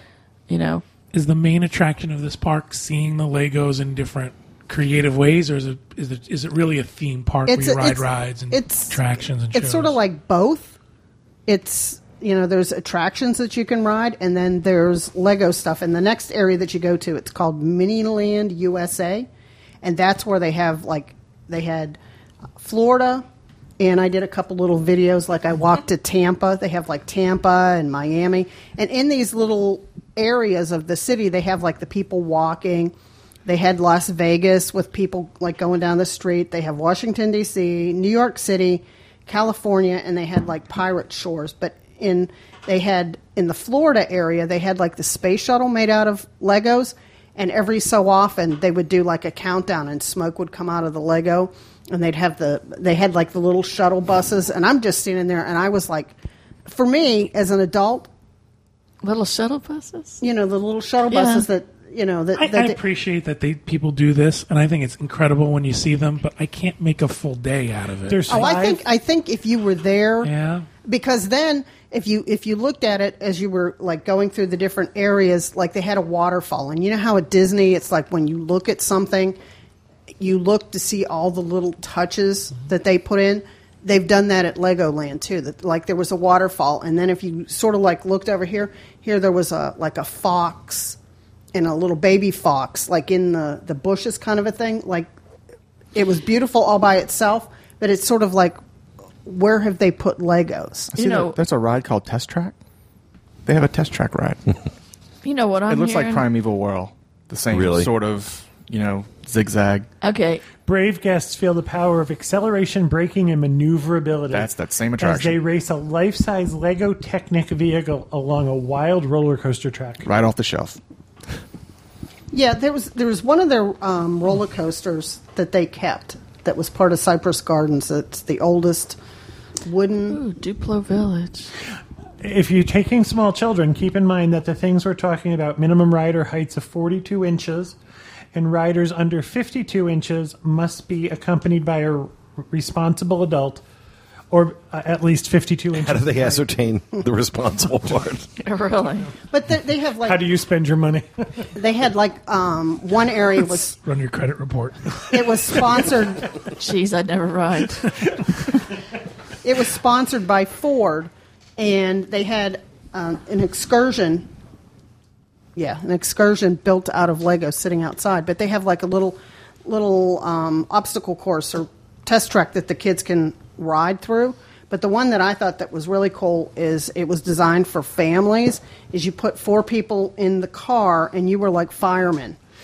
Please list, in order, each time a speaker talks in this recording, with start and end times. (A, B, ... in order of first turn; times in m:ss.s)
0:00.5-0:00.8 A
0:01.1-0:10.0 B
0:07.5-0:09.0 C
0:09.5-0:10.8 C
0:11.5-0:19.3 C
0:19.8-0:22.0 C
0:22.6-0:23.2 C
0:23.8-0:32.9 C
0:33.4-0:56.1 C
0:56.7-0:58.1 C
0:59.0-1:00.2 A
1:00.2-1:02.8 C
1:01.1-1:01.5 A
1:02.4-1:08.3 B
1:08.1-1:08.8 D
1:08.3-1:10.3 C
1:10.2-1:10.7 B
1:10.8-1:19.4 C
1:20.2-1:31.0 C
1:31.5-1:35.1 C
1:35.9-1:38.6 C
1:39.2-1:40.9 C
1:40.9-1:41.4 A
1:41.0-1:42.6 E
1:43.4-1:44.5 E
1:45.2-1:46.2 A
1:45.7-1:49.9 E
1:47.5-1:47.9 F
1:50.0-1:50.4 A
1:50.6-2:00.0 D
1:54.3-1:55.4 E
2:00.0-2:00.8 E
2:02.3-2:09.0 C
2:09.6-2:10.2 C
2:10.1-2:11.5 A
2:12.2-2:17.8 D
2:18.3-2:23.6 D
2:24.3-2:26.4 D
2:25.7-2:28.3 F
2:28.4-2:29.1 A
2:29.3-2:30.2 C
2:30.0-2:31.2 D
2:31.5-2:33.7 C
2:33.5-2:35.2 B
2:35.1-2:36.3 C
2:36.5-2:37.9 A
2:39.4-2:44.3 C
2:45.6-3:02.4 C